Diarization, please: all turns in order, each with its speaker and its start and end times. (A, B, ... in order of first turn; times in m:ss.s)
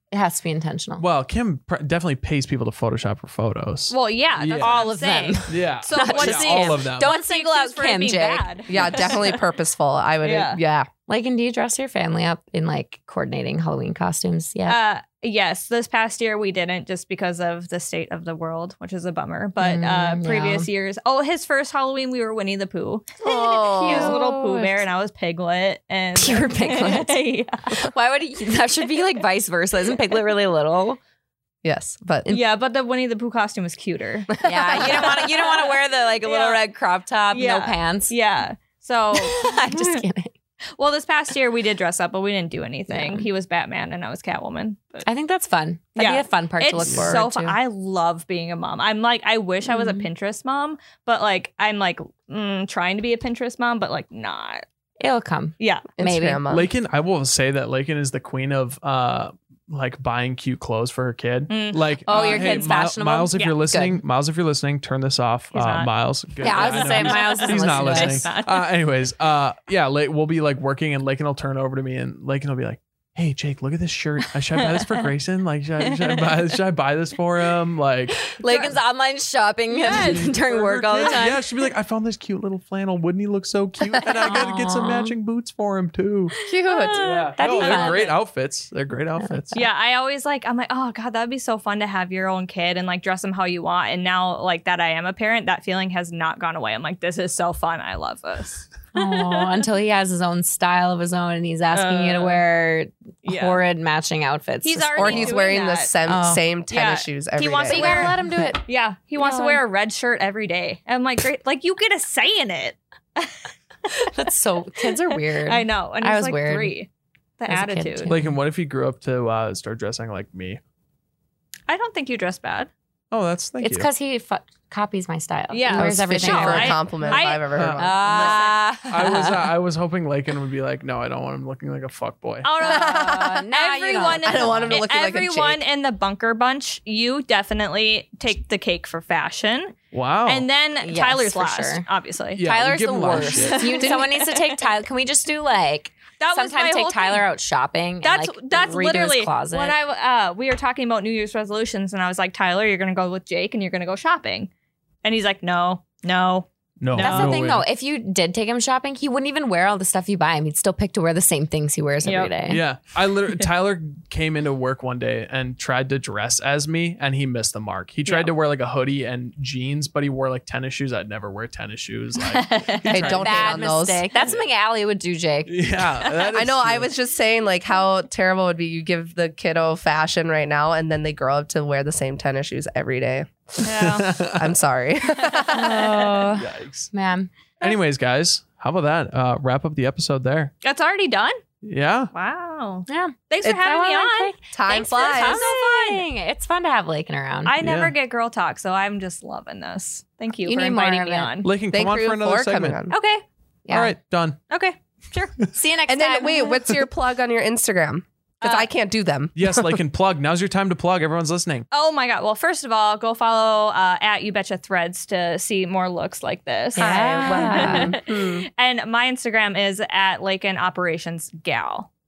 0:00.1-0:01.0 A
0:01.0-0:04.8 B
0:03.9-0:09.4 C
0:04.6-0:09.2 A
0:05.5-0:07.1 B
0:08.7-0:10.9 D
0:10.2-0:10.6 C
0:11.1-0:14.8 A
0:14.6-0:27.9 C
0:19.6-0:20.7 A
0:23.2-0:24.2 D
0:23.8-0:24.8 A
0:26.2-0:31.0 A
0:31.6-0:32.3 D
0:32.3-0:36.6 C
0:34.3-0:35.2 D
0:34.4-0:38.1 A
0:37.3-0:40.0 C
0:39.1-0:40.3 A
0:40.8-0:45.0 C
0:42.9-0:43.3 A
0:45.0-0:47.6 A
0:45.9-0:54.6 C
0:46.8-0:47.2 B
0:49.7-0:50.0 A
0:55.0-0:56.4 A
0:55.6-0:55.9 C
0:56.0-0:56.7 D
0:56.5-1:18.4 B
1:01.5-1:02.7 C
1:02.1-1:04.0 A
1:05.5-1:05.9 C
1:06.4-1:08.3 A
1:06.4-1:08.6 C
1:14.6-1:15.1 C
1:15.8-1:16.5 C
1:18.3-1:21.4 A
1:18.4-1:18.8 C
1:19.7-1:21.3 C
1:20.8-1:26.3 B
1:24.1-1:25.1 A
1:26.4-1:28.1 A
1:26.6-1:28.1 C
1:27.0-1:29.5 B
1:29.2-1:29.6 A
1:29.5-1:39.6 C
1:38.9-1:45.4 A
1:41.7-1:42.4 C
1:43.2-1:43.6 C
1:44.6-1:45.9 C
1:45.0-1:48.1 D
1:46.0-1:46.4 A
1:46.7-1:54.1 C
1:47.7-1:48.6 A
1:49.2-1:49.6 A
1:54.1-1:56.7 A
1:54.9-1:56.9 C
1:57.4-1:58.2 C
1:57.5-1:58.4 A
1:58.1-2:00.6 B
2:01.7-2:02.7 C
2:03.1-2:03.9 B
2:03.6-2:07.2 A
2:05.5-2:07.5 C
2:05.8-2:08.4 D
2:07.5-2:08.3 B
2:07.8-2:09.5 A
2:08.0-2:08.6 C
2:08.9-2:12.5 B
2:12.4-2:22.4 C
2:12.6-2:14.8 A
2:12.6-2:13.4 D
2:14.0-2:15.6 D
2:19.9-2:20.5 B
2:20.8-2:21.9 A
2:22.4-2:23.9 B
2:22.4-2:29.8 A
2:23.3-2:24.5 C
2:26.2-2:27.2 C
2:28.0-2:34.5 C
2:35.0-2:37.4 C
2:36.8-2:37.6 B
2:36.9-2:42.6 A
2:42.0-2:42.3 C
2:42.5-2:53.6 B
2:52.2-2:53.1 C
2:52.9-2:54.1 D
2:53.1-2:55.5 A
2:55.4-2:56.9 B
2:56.3-3:03.3 D
3:03.6-3:04.5 B
3:03.6-3:04.2 C
3:04.3-3:06.0 D
3:05.3-3:06.2 C
3:05.5-3:07.3 A
3:06.3-3:06.9 B
3:07.6-3:10.5 B
3:10.6-3:11.4 C
3:11.6-3:12.1 B
3:12.1-3:16.0 C
3:12.9-3:17.5 A
3:14.5-3:15.5 D
3:17.4-3:21.5 C
3:17.6-3:17.9 B
3:20.4-3:21.3 A
3:21.4-3:22.8 B
3:21.7-3:22.9 D
3:22.9-3:23.2 C
3:23.6-3:23.9 A
3:23.7-3:24.4 B
3:24.5-3:25.3 C
3:25.5-3:26.6 A
3:25.9-3:29.8 D
3:28.4-3:28.7 C
3:29.3-3:31.6 B
3:31.7-3:41.9 C
3:36.8-3:38.0 A
3:36.8-3:38.5 D